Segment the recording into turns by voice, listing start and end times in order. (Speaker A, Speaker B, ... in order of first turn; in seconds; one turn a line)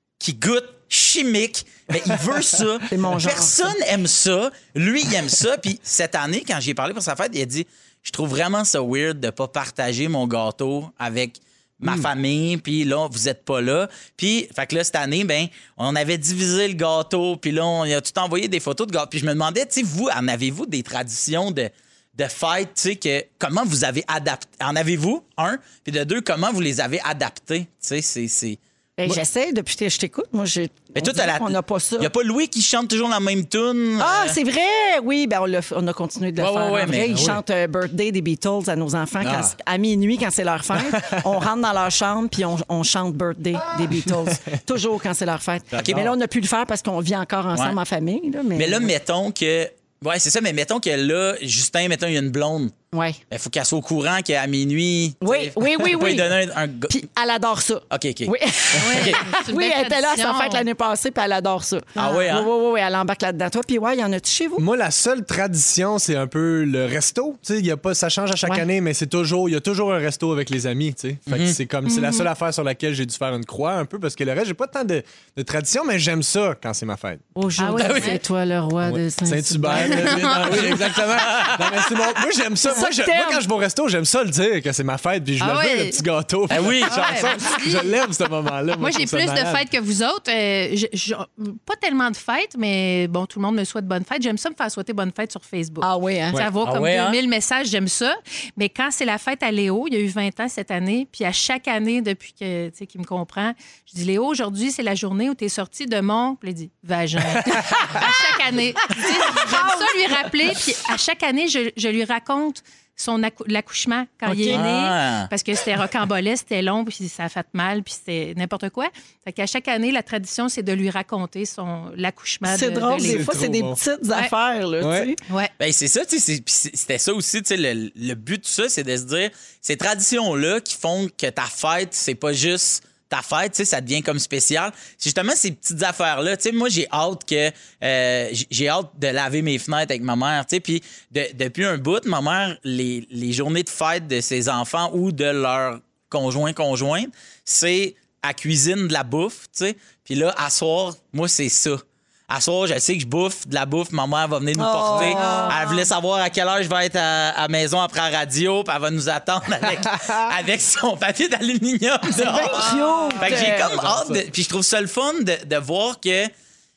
Speaker A: 0.2-29.2
Speaker B: 2.9-3.7
Speaker B: 29.0-32.1
Speaker A: 30.9-34.4
Speaker B: 34.0-48.9
Speaker A: 36.4-37.4
Speaker C: 36.9-37.4
Speaker C: 39.2-39.5
Speaker C: 40.7-41.2
Speaker C: 44.0-44.6
Speaker C: 45.7-46.1
Speaker A: 45.8-46.1
Speaker A: 48.5-52.7
Speaker B: 52.9-53.2
Speaker A: 53.3-57.0
Speaker B: 55.2-56.3
Speaker B: 56.9-64.6
Speaker A: 57.9-58.3
Speaker D: 58.8-60.6
Speaker A: 58.8-59.2
Speaker A: 62.0-62.5
Speaker C: 64.6-77.2
Speaker A: 71.3-71.5
Speaker D: 71.8-72.3
Speaker B: 77.3-80.6
Speaker D: 77.6-78.2
Speaker A: 77.8-78.2
Speaker C: 78.8-89.6
Speaker D: 79.7-80.8
Speaker A: 81.1-81.8
Speaker B: 82.6-83.4
Speaker D: 85.4-86.0
Speaker A: 86.5-87.3
Speaker D: 86.8-87.9
Speaker D: 88.8-123.3
Speaker B: 95.8-96.5
Speaker A: 96.6-97.2
Speaker C: 107.3-108.0
Speaker B: 109.3-110.0
Speaker B: 114.2-114.6
Speaker A: 114.5-115.3
Speaker B: 122.4-125.2
Speaker C: 123.0-123.8
Speaker C: 124.8-125.1
Speaker A: 125.6-166.3
Speaker B: 154.6-155.6
Speaker D: 154.9-155.9
Speaker C: 159.9-160.2
Speaker B: 162.1-163.8
Speaker D: 162.5-163.2
Speaker C: 163.3-164.2